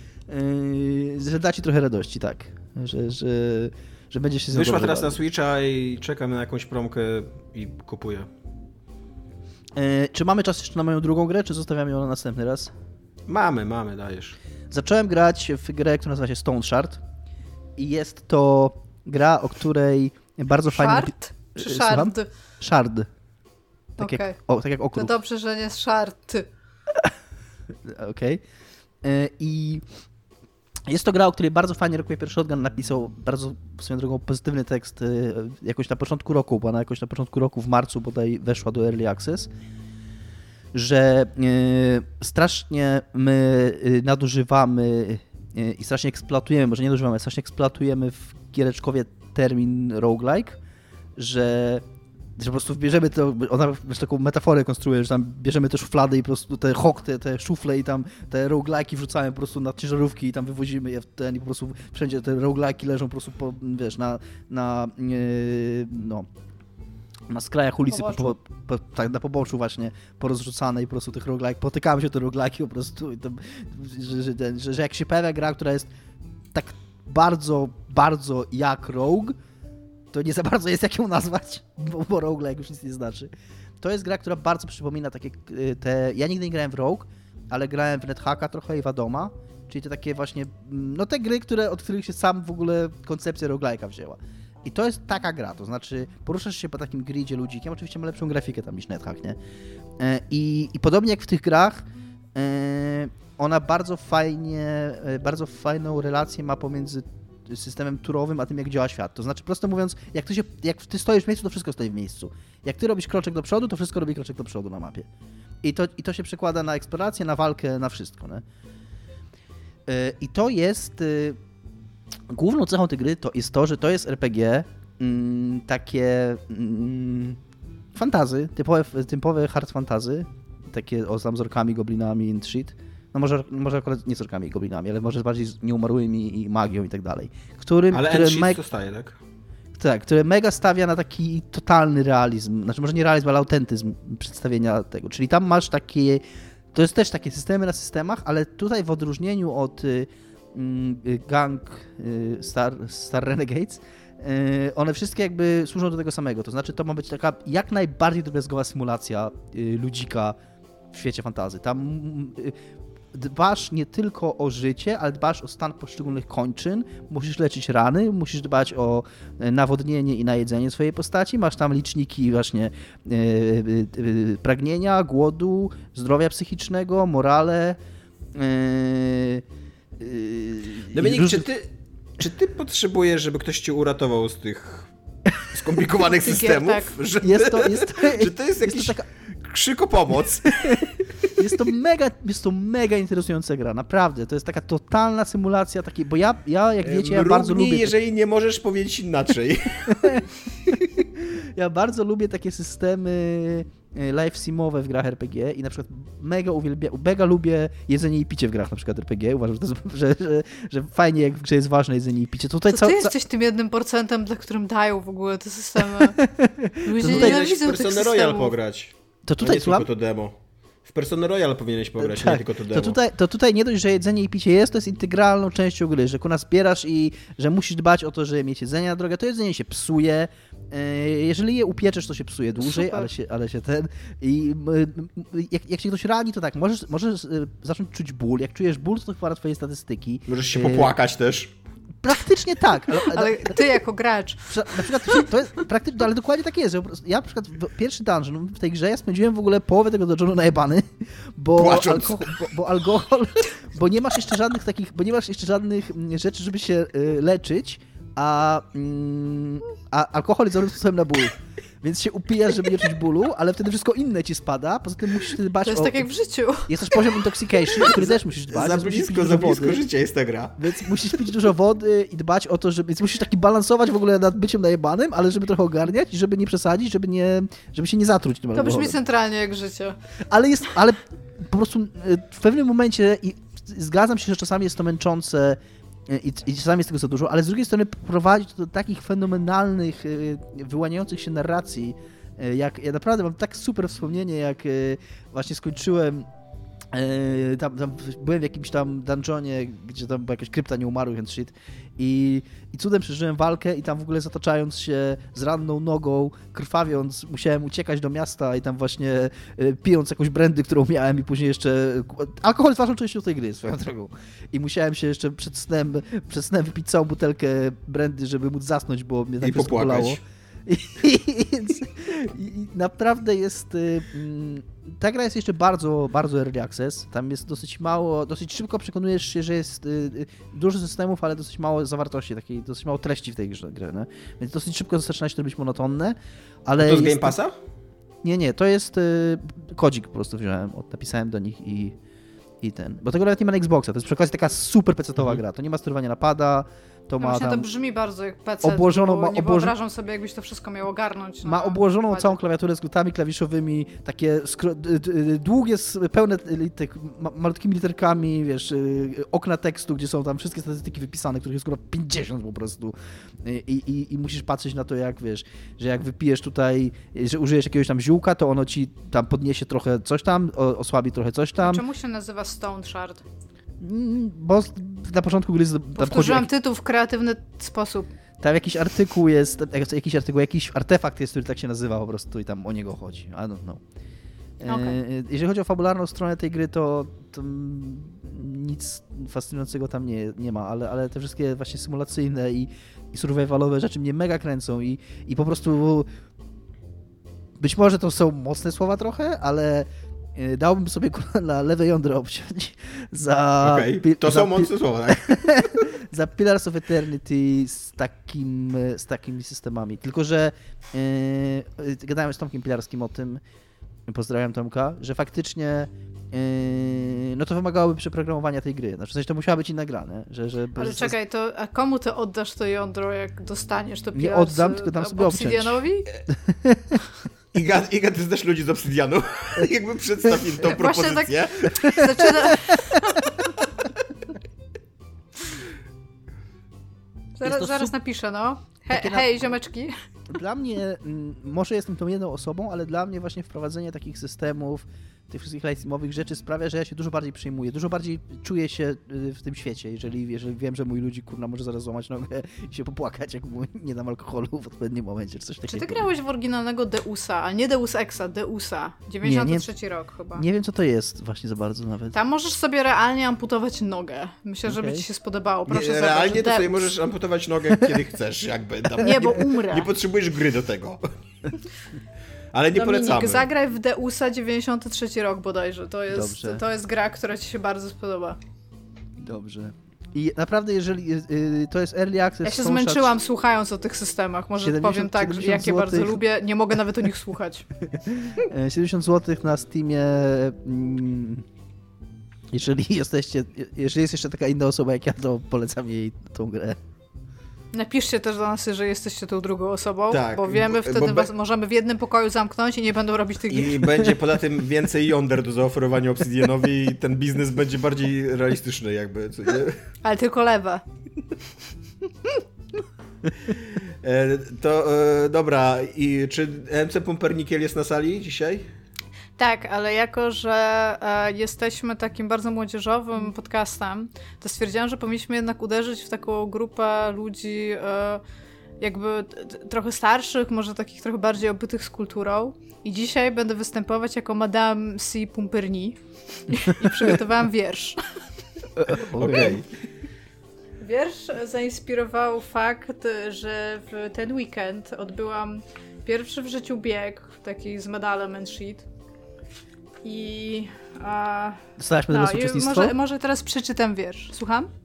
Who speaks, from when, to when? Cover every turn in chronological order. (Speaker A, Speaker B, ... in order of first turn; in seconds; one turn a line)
Speaker A: 0.3-5.2
Speaker B: 4.5-8.3
Speaker A: 9.8-12.7
Speaker B: 13.3-14.4
Speaker A: 14.7-17.0
Speaker A: 17.8-23.1
Speaker C: 20.7-22.3
Speaker A: 24.0-25.1
Speaker C: 24.0-24.4
Speaker C: 24.9-26.5
Speaker A: 27.9-28.4
Speaker A: 29.0-29.8
Speaker A: 30.9-39.5
Speaker A: 40.7-50.6
Speaker A: 51.2-51.8
Speaker A: 52.4-66.3
Speaker A: 67.3-75.9
Speaker C: 67.9-68.4
Speaker A: 76.5-79.3
Speaker A: 80.1-99.4
Speaker A: 100.0-115.1
Speaker A: 115.6-118.4
Speaker A: 119.9-121.4
Speaker A: 122.3-127.4
Speaker A: 128.0-138.6
Speaker B: 137.9-139.2
Speaker A: 139.8-146.2
Speaker A: 146.7-160.4
Speaker A: 160.9-162.6
Speaker A: 163.1-177.8
Speaker A: 178.3-179.4
Speaker A: 180.0-181.5
Speaker B: 180.9-184.9
Speaker B: 185.5-191.0
Speaker C: 186.2-186.9
Speaker A: 187.2-189.0
Speaker A: 191.4-197.9
Speaker B: 196.8-200.2
Speaker A: 199.9-213.1
Speaker C: 212.7-216.2
Speaker A: 215.9-217.4
Speaker C: 216.8-218.5
Speaker B: 217.0-223.0
Speaker A: 219.3-219.9
Speaker A: 222.0-240.9
Speaker C: 232.6-233.1
Speaker B: 240.3-241.5
Speaker A: 242.0-243.6
Speaker C: 243.0-245.2
Speaker A: 244.5-266.1
Speaker B: 251.6-252.4
Speaker C: 265.6-267.2
Speaker A: 266.7-269.8
Speaker B: 267.8-270.9
Speaker A: 270.6-279.0
Speaker C: 278.5-280.0
Speaker A: 280.3-296.3
Speaker A: 296.9-337.4
Speaker B: 319.4-320.2
Speaker B: 336.8-337.6
Speaker A: 338.2-341.9
Speaker A: 342.6-347.7
Speaker C: 347.2-352.4
Speaker A: 348.6-349.8
Speaker A: 351.4-371.8
Speaker C: 371.6-373.2
Speaker A: 373.8-376.5
Speaker C: 375.9-378.1
Speaker A: 378.4-383.8
Speaker A: 384.6-396.1
Speaker C: 384.6-385.0
Speaker A: 397.6-413.4
Speaker B: 403.6-405.3
Speaker A: 414.1-421.1
Speaker C: 420.8-426.1
Speaker A: 424.1-427.0
Speaker B: 427.5-432.3
Speaker C: 430.7-433.5
Speaker C: 437.4-439.9
Speaker A: 437.4-437.9
Speaker A: 438.9-439.5
Speaker A: 440.3-456.1
Speaker C: 455.7-460.4
Speaker A: 459.2-459.7
Speaker A: 460.3-462.1
Speaker C: 462.1-466.9
Speaker A: 464.7-465.0
Speaker B: 465.7-471.1
Speaker C: 469.0-469.9
Speaker B: 472.5-473.5
Speaker C: 472.7-478.4
Speaker A: 476.1-476.6
Speaker A: 479.2-483.1
Speaker C: 482.4-487.7
Speaker A: 484.6-486.2
Speaker A: 488.0-491.4
Speaker A: 492.5-496.8
Speaker C: 497.7-503.8
Speaker B: 500.1-501.3
Speaker B: 503.5-509.8
Speaker C: 510.0-510.8
Speaker B: 513.5-518.7
Speaker C: 519.4-528.2
Speaker C: 528.8-538.0
Speaker A: 538.8-539.6
Speaker B: 539.2-539.7
Speaker C: 540.8-548.9
Speaker C: 550.0-554.7
Speaker A: 551.8-553.0